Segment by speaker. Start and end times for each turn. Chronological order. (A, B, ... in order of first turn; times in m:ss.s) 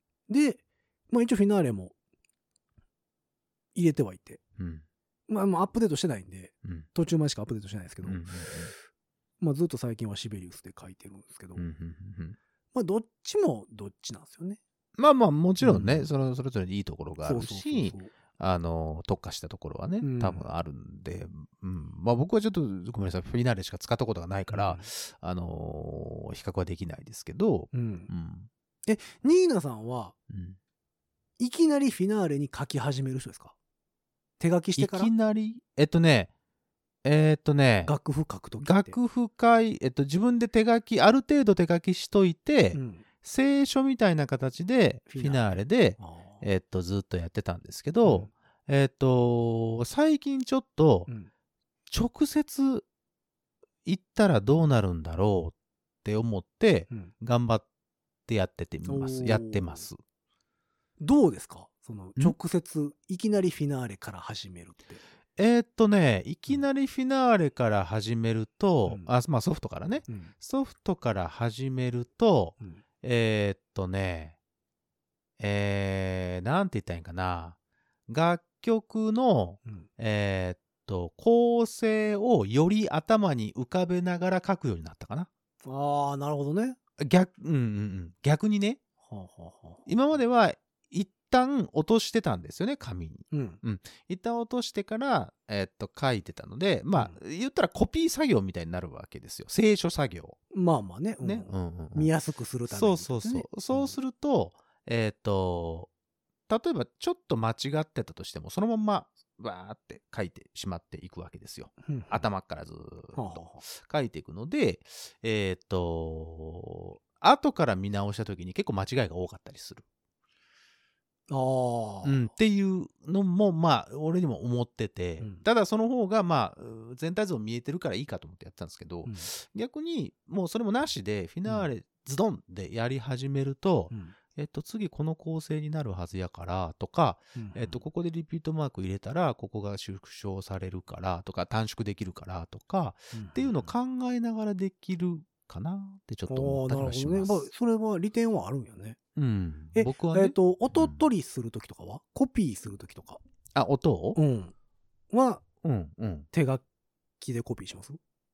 0:00.3-0:01.9 A
0:03.8-0:04.4 A
0:04.6-0:04.8 B
0:05.3-0:08.2 A
0:08.0-0:08.7 B
0:09.4-0:11.7 A
0:11.6-0:12.4 B
0:12.7-0:14.6 A
0:15.0-0:28.5 B
0:15.6-0:16.1 A
0:17.2-0:18.1 A
0:20.0-0:20.5 A
0:24.5-0:24.9 A
0:27.7-0:28.1 A
0:28.9-0:30.2 A
0:30.3-0:30.6 B
0:31.4-0:33.6 A
0:34.4-0:35.1 A
0:34.8-0:36.3 B
0:37.0-0:37.9 B
0:37.8-0:39.0 A
0:38.6-0:51.1 B
0:42.7-0:43.0 A
0:45.1-0:45.4 A
0:46.0-0:46.4 A
0:48.0-0:48.3 A
0:51.9-0:52.9 B
0:53.8-0:57.6 B
0:58.3-1:00.0 B
0:58.9-0:59.9 A
1:01.0-1:05.0 A
1:05.4-1:14.4 B
1:10.1-1:10.3 A
1:15.4-1:17.6 B
1:18.1-1:25.3 B
1:25.6-1:26.8 A
1:27.0-1:28.8 B
1:29.1-1:29.9 A
1:29.9-1:40.4 B
1:33.3-1:33.6 A
1:40.5-1:44.0 A
1:41.2-1:42.1 B
1:42.7-1:45.9 B
1:46.5-1:59.8 B
1:51.8-1:52.2 A
1:53.2-1:53.6 A
2:01.3-2:02.3 A
2:02.0-2:27.5 B
2:13.9-2:14.2 A
2:17.4-2:17.8 A
2:23.1-2:23.7 A
2:26.3-2:29.0 A
2:29.2-2:31.0 B
2:29.7-2:33.2 A
2:33.5-2:34.2 B
2:34.2-2:34.5 A
2:35.1-2:35.4 A
2:35.6-2:36.3 B
2:36.3-2:36.6 A
2:37.2-2:38.0 A